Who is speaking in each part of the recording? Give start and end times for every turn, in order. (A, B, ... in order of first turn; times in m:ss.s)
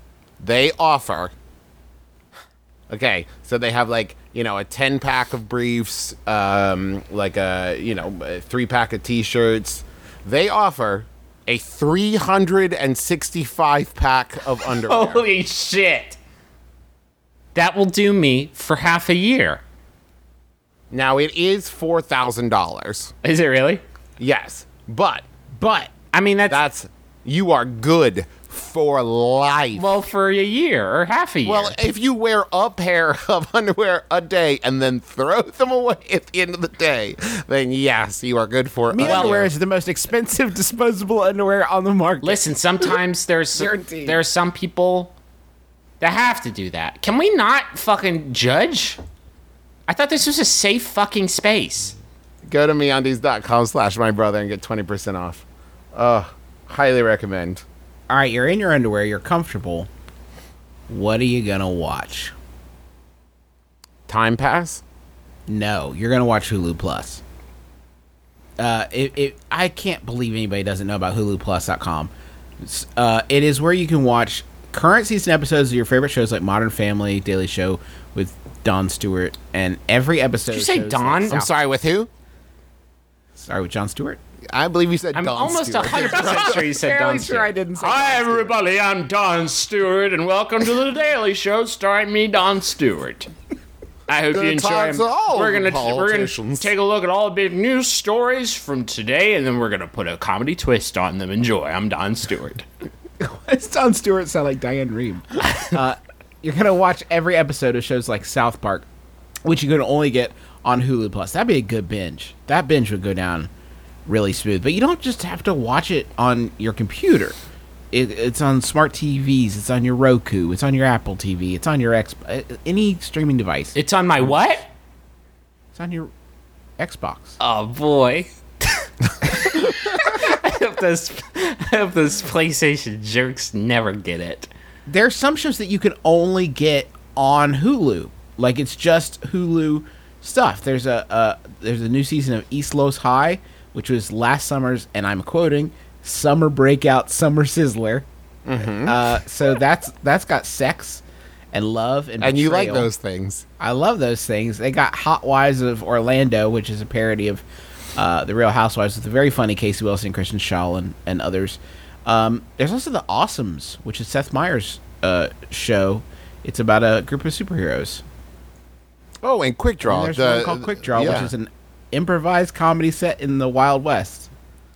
0:00.4-0:01.3 A
0:02.9-0:15.2 A
0:14.7-0:16.2 B
0:17.5-0:19.6 B
0:20.9-0:23.1 A
0:23.2-0:23.8 B
0:24.2-0:25.2 A
0:25.6-0:25.9 C
0:26.1-0:26.6 B
0:26.5-0:29.8 A
0:29.7-0:31.8 B
0:31.4-0:39.5 A
0:38.9-0:43.0 C
0:39.0-0:39.4 B
0:42.2-0:45.1 B
0:43.6-0:44.2 C
0:46.0-0:49.0 B
0:49.9-0:51.9 B
0:52.4-0:57.6 A
0:58.1-0:59.9 C
1:00.9-1:02.3 C
1:04.1-1:04.8 A
1:05.5-1:07.2 C
1:08.6-1:21.5 C
1:20.5-1:21.4 B
1:21.3-1:22.1 A
1:23.4-1:24.2 C
1:24.5-1:26.6 A
1:25.1-1:33.3 B
1:25.9-1:28.6 C
1:34.1-1:42.6 B
1:34.3-1:36.7 A
1:43.2-1:48.9 C
1:49.4-1:53.5 C
1:54.0-1:57.4 C
1:57.9-2:03.8 C
2:03.7-2:04.7 B
2:05.7-2:06.1 C
2:06.8-2:07.4 C
2:07.4-2:08.3 B
2:09.2-2:14.5 B
2:14.8-2:28.0 C
2:28.4-2:29.0 A
2:28.8-2:32.9 C
2:32.2-2:33.4 A
2:33.6-2:37.4 C
2:37.9-2:48.0 C
2:49.2-2:51.3 A
2:49.8-2:54.3 C